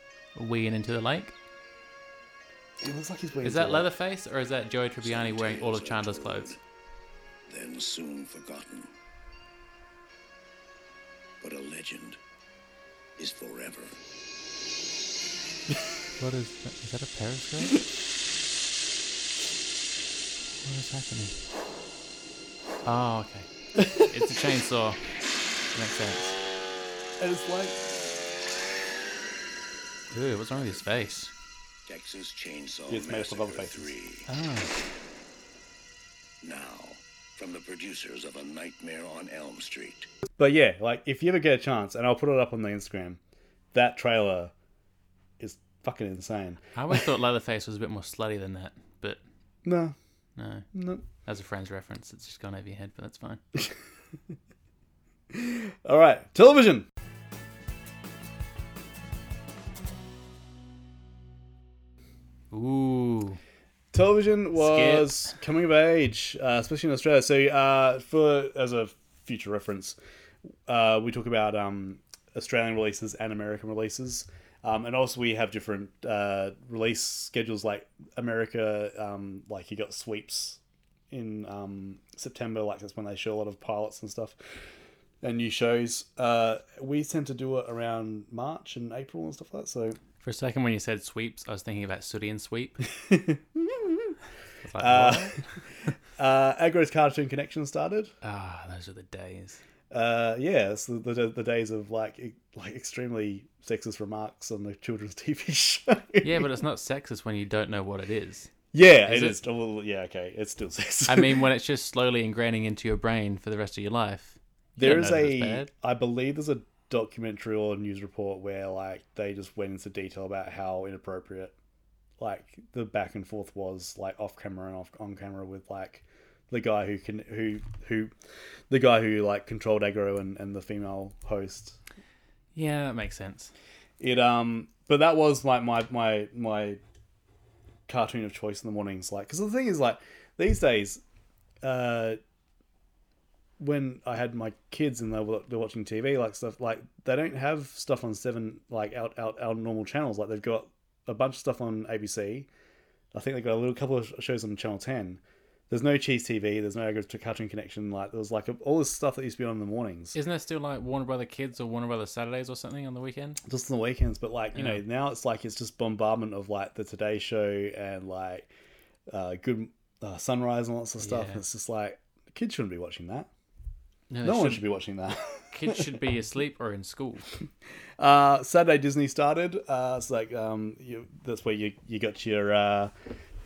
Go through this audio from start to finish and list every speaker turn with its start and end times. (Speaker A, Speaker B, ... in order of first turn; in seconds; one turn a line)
Speaker A: 0.3-1.4
Speaker B: 2.8-3.9
Speaker A: 3.4-6.6
Speaker C: 5.0-6.6
Speaker C: 7.5-8.9
Speaker C: 11.4-12.2
Speaker C: 13.2-14.0
Speaker A: 16.2-17.8
Speaker A: 20.6-21.4
Speaker A: 22.9-25.0
Speaker B: 23.8-24.2
Speaker A: 25.7-26.4
Speaker B: 27.2-27.8
Speaker A: 30.1-31.3
Speaker C: 30.5-31.0
Speaker C: 31.9-34.3
Speaker B: 32.9-34.0
Speaker A: 34.3-34.7
Speaker C: 36.4-40.1
Speaker B: 40.4-43.2
Speaker B: 43.7-44.5
Speaker B: 45.4-47.0
Speaker A: 46.7-49.2
Speaker B: 49.6-50.0
Speaker A: 50.4-50.7
Speaker B: 50.7-51.0
Speaker A: 51.2-53.4
Speaker B: 55.3-56.9
Speaker A: 62.5-63.4
Speaker B: 63.9-70.0
Speaker A: 64.6-65.3
Speaker B: 70.7-84.4
Speaker B: 85.2-90.0
Speaker A: 90.2-92.8
Speaker B: 92.9-94.2
Speaker A: 94.7-95.4
Speaker B: 94.8-95.4
Speaker B: 96.2-98.1
Speaker A: 98.2-99.6
Speaker B: 99.9-106.5
Speaker A: 106.2-108.5
Speaker B: 108.7-111.4
Speaker A: 109.0-109.4
Speaker A: 111.1-115.7
Speaker B: 114.8-121.5
Speaker B: 122.2-128.1
Speaker B: 128.7-131.8
Speaker A: 132.6-133.5
Speaker B: 134.0-136.8
Speaker B: 137.9-141.0
Speaker B: 141.6-142.2
Speaker B: 143.6-152.5
Speaker B: 153.1-160.2
Speaker A: 160.1-163.4
Speaker B: 163.4-168.5
Speaker A: 164.6-164.8
Speaker B: 169.1-173.3
Speaker A: 171.0-171.4
Speaker A: 174.1-174.7
Speaker B: 174.2-176.0
Speaker A: 175.5-177.3
Speaker B: 178.0-182.9